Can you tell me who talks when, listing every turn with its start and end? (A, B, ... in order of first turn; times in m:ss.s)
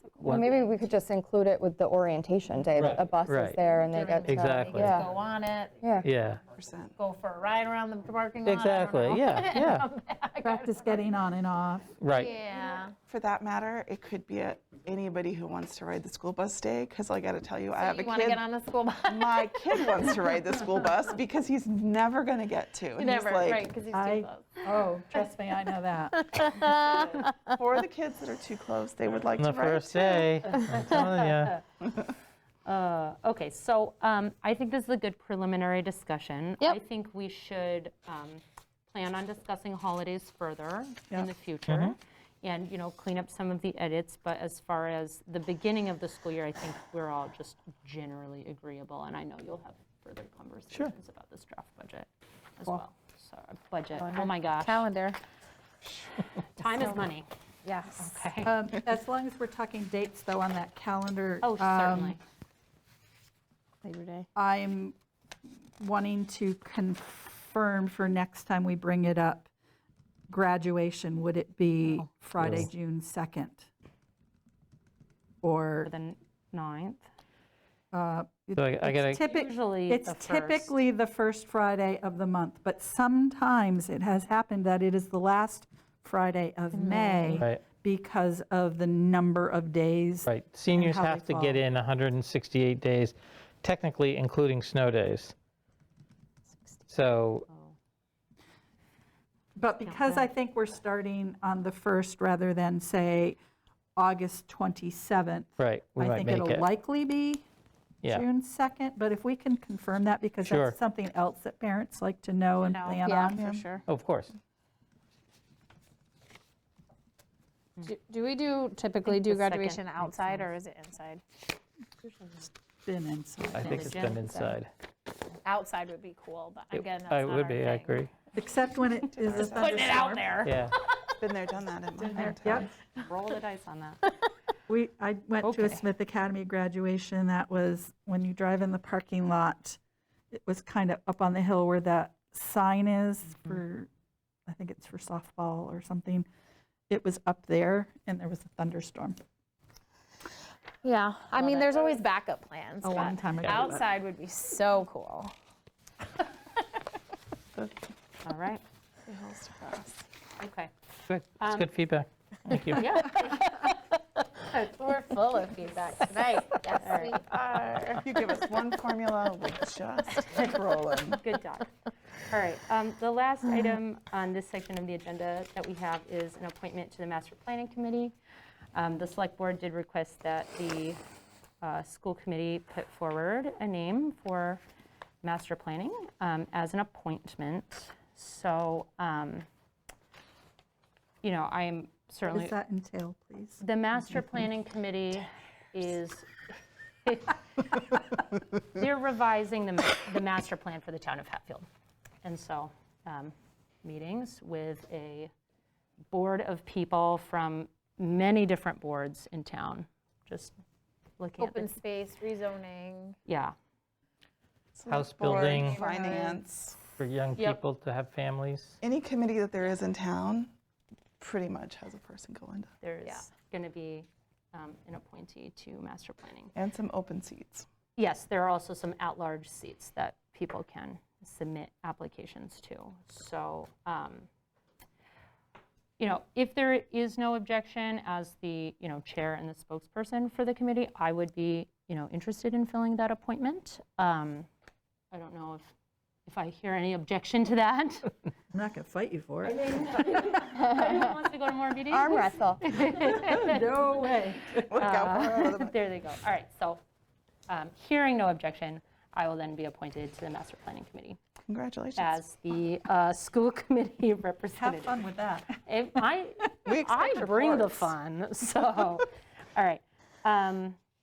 0:00.2-0:00.5 A
0:00.2-0:05.1 B
0:02.8-0:03.6 A
0:03.6-0:05.8 C
0:04.2-0:05.1 A
0:05.8-0:06.1 B
0:06.0-0:06.4 A
0:06.5-0:06.9 D
0:07.0-0:11.1 C
0:08.4-0:09.9 A
0:10.4-0:11.9 E
0:12.0-0:12.3 A
0:12.1-0:12.9 C
0:13.1-0:18.4 D
0:17.7-0:20.5 C
0:19.1-0:23.7 D
0:22.9-0:25.3 C
0:23.9-0:26.6 E
0:26.2-0:27.3 C
0:26.9-0:27.2 F
0:27.6-0:30.3 D
0:29.3-0:31.6 A
0:30.5-0:31.6 F
0:32.6-0:54.8 F
0:41.7-0:42.0 A
0:54.0-0:55.2 C
0:56.4-0:57.3 F
0:57.6-0:58.1 C
0:58.0-0:58.5 F
0:58.4-1:02.2 E
1:01.4-1:02.2 F
1:03.8-1:04.2 C
1:04.4-1:05.0 E
1:05.8-1:09.5 E
1:10.3-1:13.7 E
1:12.4-1:12.7 A
1:15.4-1:15.9 E
1:15.8-1:17.0 F
1:17.9-1:31.6 E
1:18.6-1:19.2 A
1:19.2-1:20.7 F
1:30.2-1:35.3 A
1:36.9-1:37.4 A
1:37.5-1:37.7 F
1:39.6-1:43.4 E
1:39.8-1:40.2 F
1:44.0-1:47.4 E
1:45.6-1:46.7 A
1:48.0-1:53.4 E
1:50.4-1:50.8 A
1:52.6-1:53.8 C
1:53.3-1:53.7 D
1:53.9-1:54.3 A
1:57.8-2:01.2 C
1:59.0-2:00.5 F
2:02.0-2:02.5 F
2:02.8-2:04.5 E
2:03.5-2:04.7 A
2:03.6-2:04.3 F
2:05.4-2:07.9 C
2:06.7-2:08.1 A
2:08.3-2:10.4 E
2:09.1-2:10.0 D
2:09.3-2:10.6 C
2:10.4-2:10.7 A
2:11.2-2:12.7 D
2:12.0-2:14.1 F
2:12.2-2:12.7 E
2:14.7-2:19.8 E
2:15.4-2:15.8 F
2:20.3-2:23.9 E
2:24.5-2:26.2 E
2:26.9-2:29.2 E
2:30.8-2:35.3 C
2:31.3-2:32.0 F
2:32.8-2:33.9 E
2:38.2-2:38.6 F
2:39.1-2:40.1 D
2:40.4-2:40.7 F
2:41.1-2:42.9 A
2:41.4-2:41.7 F
2:42.8-2:43.6 F
2:43.2-2:43.5 C
2:44.4-2:48.1 C
2:46.7-2:47.2 F
2:48.0-2:51.2 D
2:51.2-2:51.7 F
2:52.2-2:58.1 F
2:58.7-3:01.0 F
3:01.6-3:04.6 F
3:05.2-3:09.4 F
3:11.2-3:12.5 F
3:12.3-3:14.3 E
3:13.6-3:16.3 F
3:17.0-3:21.7 F
3:22.2-3:25.3 F
3:26.1-3:30.6 F
3:31.2-3:31.7 F
3:31.4-3:33.2 C
3:33.3-3:33.5 F
3:34.7-3:36.8 D
3:34.9-3:35.8 A
3:35.1-3:36.4 C
3:37.0-3:38.8 A
3:38.8-3:40.5 D
3:41.2-3:42.7 D
3:42.8-3:46.5 F
3:46.5-3:47.6 D
3:48.0-3:54.3 F
3:56.0-4:04.5 F
4:05.1-4:05.7 F
4:06.3-4:08.1 F
4:08.5-4:10.5 E
4:09.4-4:13.6 F
4:10.6-4:11.1 B
4:11.9-4:12.7 B
4:12.9-4:14.8 E
4:14.7-4:15.7 D
4:14.7-4:16.8 F
4:17.5-4:21.2 F
4:21.5-4:22.2 D
4:22.0-4:25.1 F
4:24.6-4:25.6 E
4:25.6-4:30.8 F
4:26.6-4:27.9 D